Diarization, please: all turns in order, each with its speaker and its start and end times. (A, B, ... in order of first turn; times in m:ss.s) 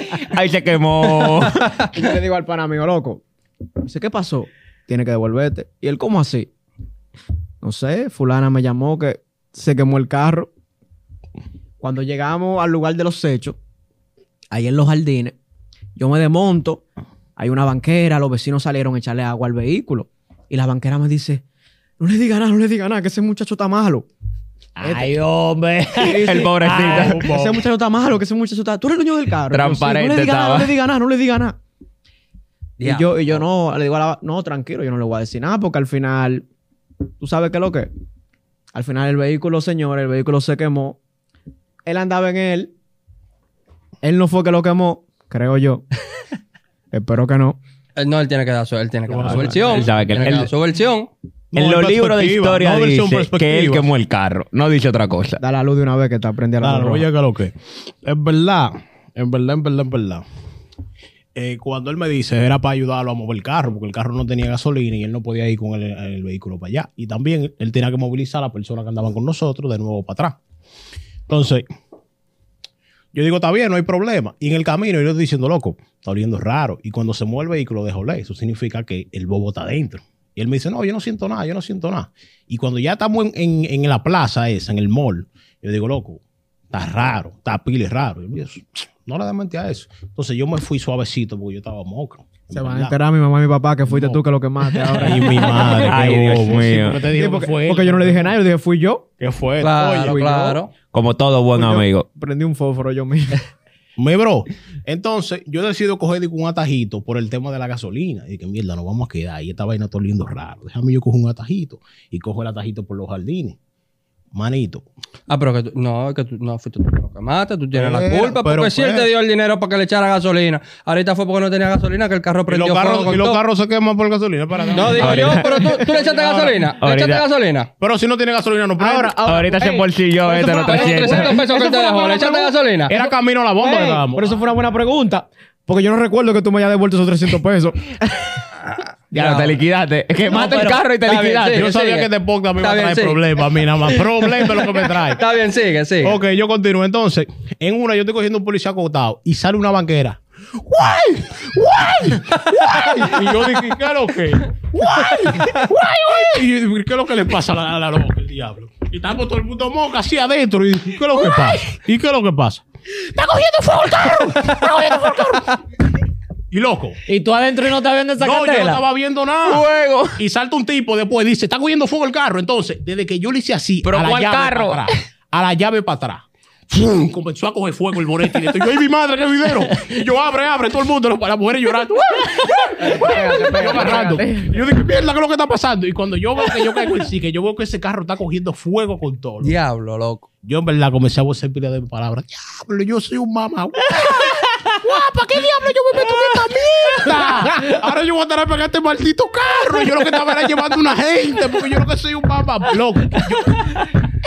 0:00.1-0:01.7 A
0:01.2-0:01.9 B
0:01.9-0:03.2 C
0:03.8-0:06.5 C
0:07.6-0:10.5 C
0:11.8-0:13.6 C
0:14.5-0:15.3 C
0:16.0-0:16.8 C
0:17.4-0:21.4 C
0:22.0-0:24.1 C
0:24.8-0:27.2 D
0:24.8-0:25.1 C
0:26.0-0:27.3 A
0:26.0-0:31.6 C
0:27.0-0:27.6 E
0:29.5-0:30.7 A
0:32.8-0:33.1 B
0:32.8-0:36.4 C
0:37.2-0:37.9 C
0:38.7-0:41.0 C
0:41.8-0:42.7 C
0:44.0-0:45.8 C
0:46.9-0:47.6 C
0:48.0-0:51.1 B
0:49.1-0:49.9 E
0:49.5-0:50.5 A
0:51.5-0:53.8 E
0:51.5-0:55.4 A
0:55.4-0:57.0 C
0:56.6-1:00.2 E
1:01.3-1:10.4 E
1:11.3-1:11.7 E
1:13.1-1:26.2 E
1:26.7-1:32.9 E
1:32.5-1:36.2 C
1:33.9-1:34.2 E
1:35.0-1:38.3 E
1:35.8-1:37.0 A
1:37.1-1:39.1 C
1:39.2-1:40.2 E
1:39.6-1:40.7 B
1:39.9-1:40.6 C
1:40.9-1:42.0 A
1:41.5-1:43.4 C
1:44.0-1:53.6 E
1:54.3-1:54.8 E
1:55.3-2:03.4 B
1:57.7-1:59.1 E
2:02.5-2:06.6 E
2:04.7-2:07.7 B
2:05.0-2:05.7 A
2:06.8-2:07.2 A
2:07.8-2:09.3 E
2:08.8-2:12.5 C
2:09.2-2:11.4 A
2:10.6-2:12.9 B
2:12.9-2:14.3 E
2:13.6-2:18.3 C
2:18.6-2:19.6 B
2:19.1-2:21.7 A
2:20.3-2:20.8 D
2:21.0-2:23.2 B
2:21.5-2:25.2 E
2:25.0-2:26.2 B
2:26.0-2:45.6 E
2:41.3-2:41.7 A
2:44.1-2:45.2 A
2:46.5-2:47.0 E
2:47.1-2:48.8 D
2:48.2-2:49.6 E
2:49.4-2:50.2 A
2:50.2-3:09.5 E
2:53.8-2:54.9 A
3:02.8-3:04.6 C
3:09.4-3:10.3 B
3:10.4-3:24.0 E
3:13.9-3:14.7 D
3:15.9-3:17.7 D
3:23.1-3:23.8 D